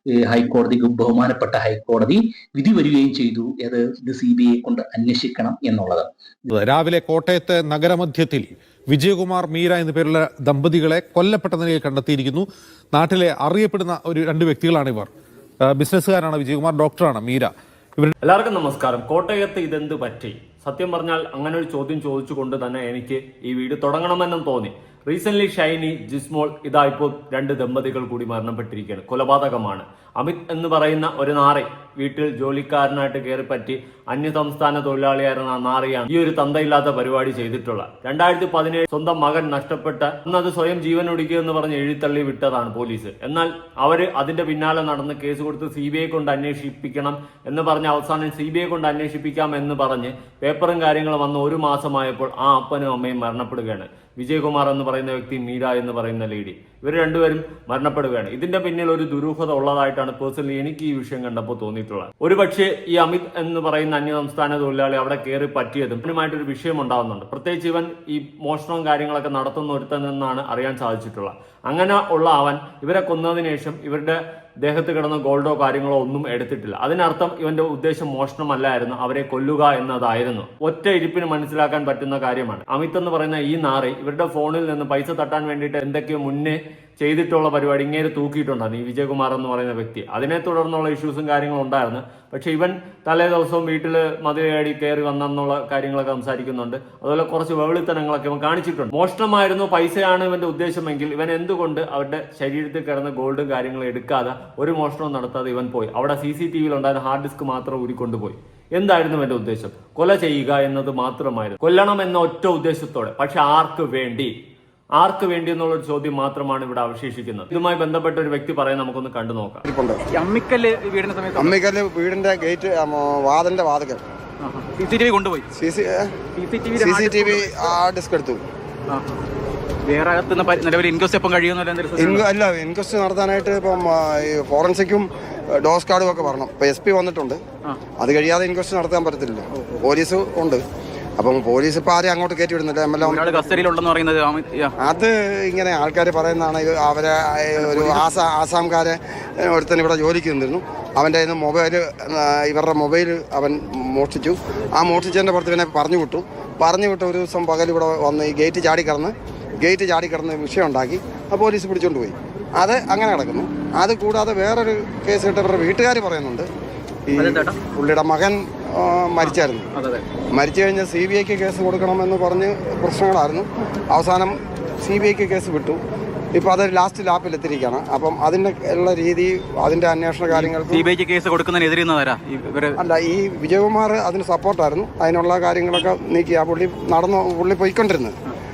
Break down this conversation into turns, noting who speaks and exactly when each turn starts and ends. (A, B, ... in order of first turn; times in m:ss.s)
0:00.2-0:06.1 A
0:06.6-0:15.1 B
0:15.7-0:18.1 B
0:18.2-1:54.3 C
1:55.0-1:59.6 C
1:59.6-2:00.0 D
2:00.1-2:01.6 E
2:01.3-2:04.0 D
2:04.4-2:05.4 E
2:05.5-2:06.1 D
2:06.4-2:07.5 E
2:06.7-2:08.4 D
2:08.9-2:09.2 E
2:09.8-2:12.2 E
2:12.0-2:15.1 D
2:15.6-2:17.4 D
2:18.0-2:20.6 D
2:21.2-2:23.6 D
2:23.0-2:24.7 E
2:24.8-2:46.5 D
2:27.6-2:28.0 E
2:47.1-2:49.7 D
2:47.2-2:47.6 E
2:49.2-2:50.0 E
2:50.4-2:55.8 D
2:56.3-3:00.8 D
3:00.3-3:02.8 E
3:02.8-3:08.1 D